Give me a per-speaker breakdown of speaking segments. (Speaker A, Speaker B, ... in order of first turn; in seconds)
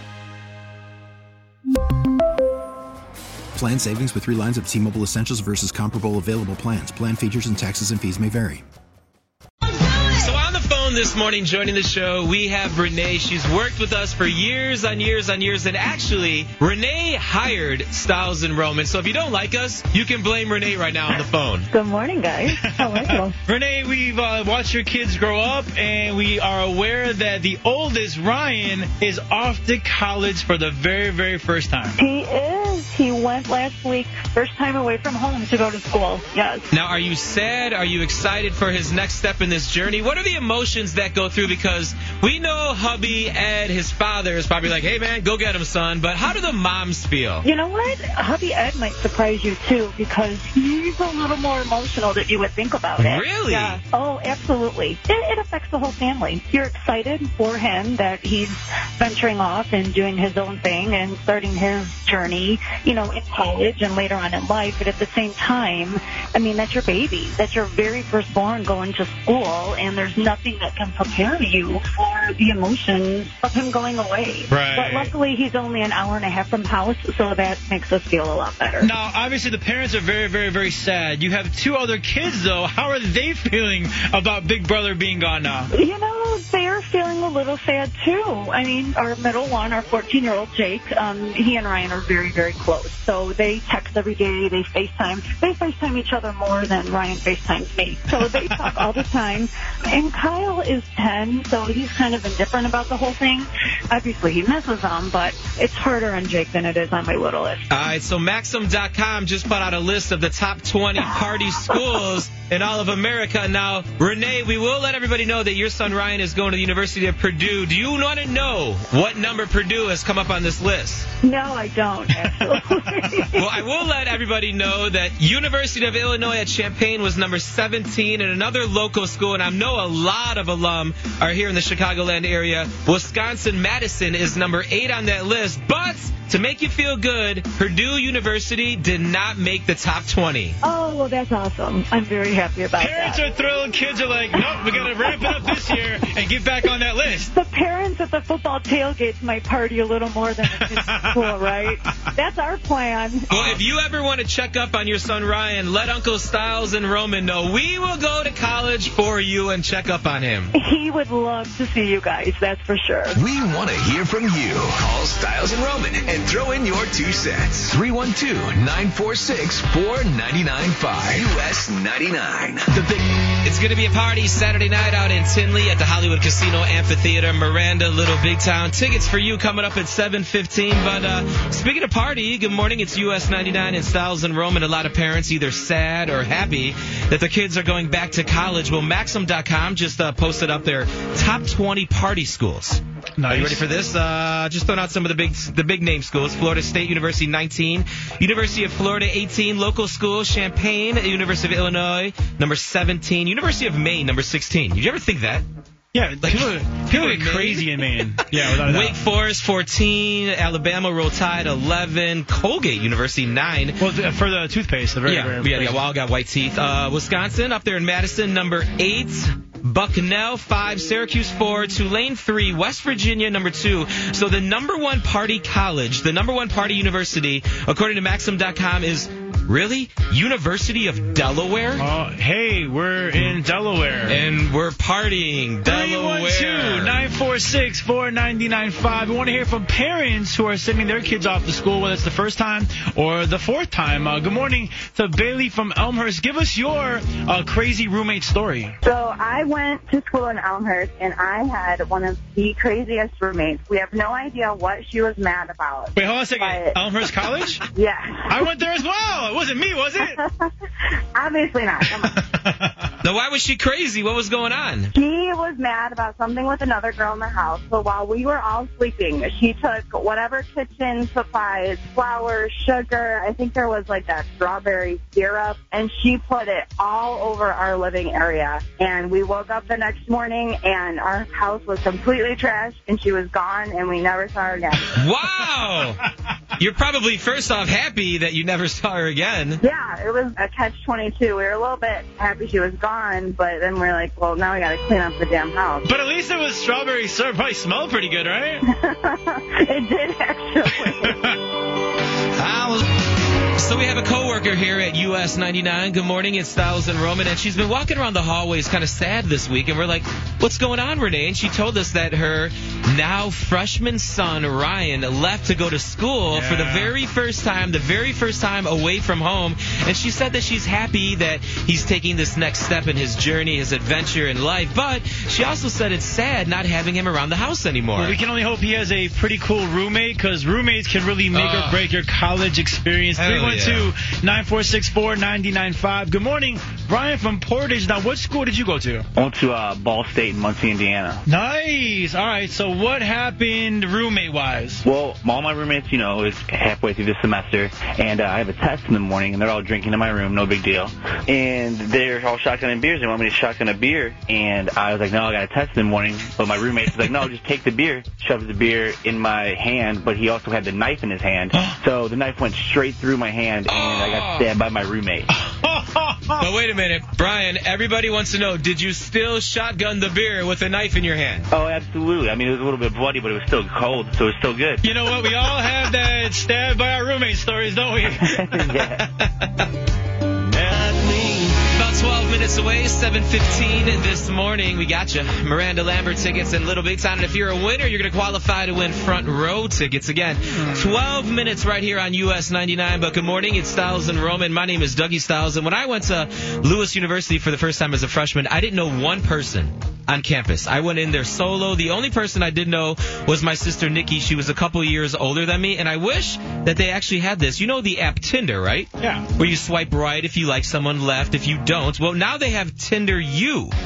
Speaker A: 3.5-8.6
Speaker B: 9.8-21.7, 36.7-47.4, 53.0-53.8, 107.7-121.1, 123.3-140.6, 153.3-160.5, 173.4-205.4, 206.2-213.8, 215.1-231.8, 234.1-237.0, 263.0-264.9, 284.9-286.0, 286.6-289.6, 302.4-302.8, 303.6-328.1, 331.3-331.9, 333.1-333.9, 363.6-364.5, 366.4-371.5, 378.5-379.7, 381.7-413.7
Speaker C: 21.7-23.4, 32.0-36.7, 47.4-78.9, 85.7-107.9, 111.2-112.0, 121.2-123.7, 140.6-143.7, 144.3-146.0, 146.6-153.6, 160.5-163.2
Speaker D: 22.5-31.9, 74.5-75.1, 78.8-85.7, 142.8-147.3, 150.6-152.0, 193.2-193.7, 205.9-209.0, 213.8-215.8, 231.8-234.2, 235.7-248.8, 255.9-257.6, 258.3-260.1, 262.3-262.9, 295.8-298.6, 301.0-301.4, 316.3-316.9, 328.0-339.1, 341.2-344.9, 365.3-366.5, 374.9-378.3, 390.5-390.9, 409.0-409.3
Speaker E: 163.1-173.0
Speaker F: 248.8-256.8, 257.7-258.5, 260.0-260.5, 261.1-262.2, 264.9-285.0, 289.6-295.9, 298.8-301.2
Speaker G: 339.1-341.2, 344.9-365.3, 371.5-374.8, 378.2-379.0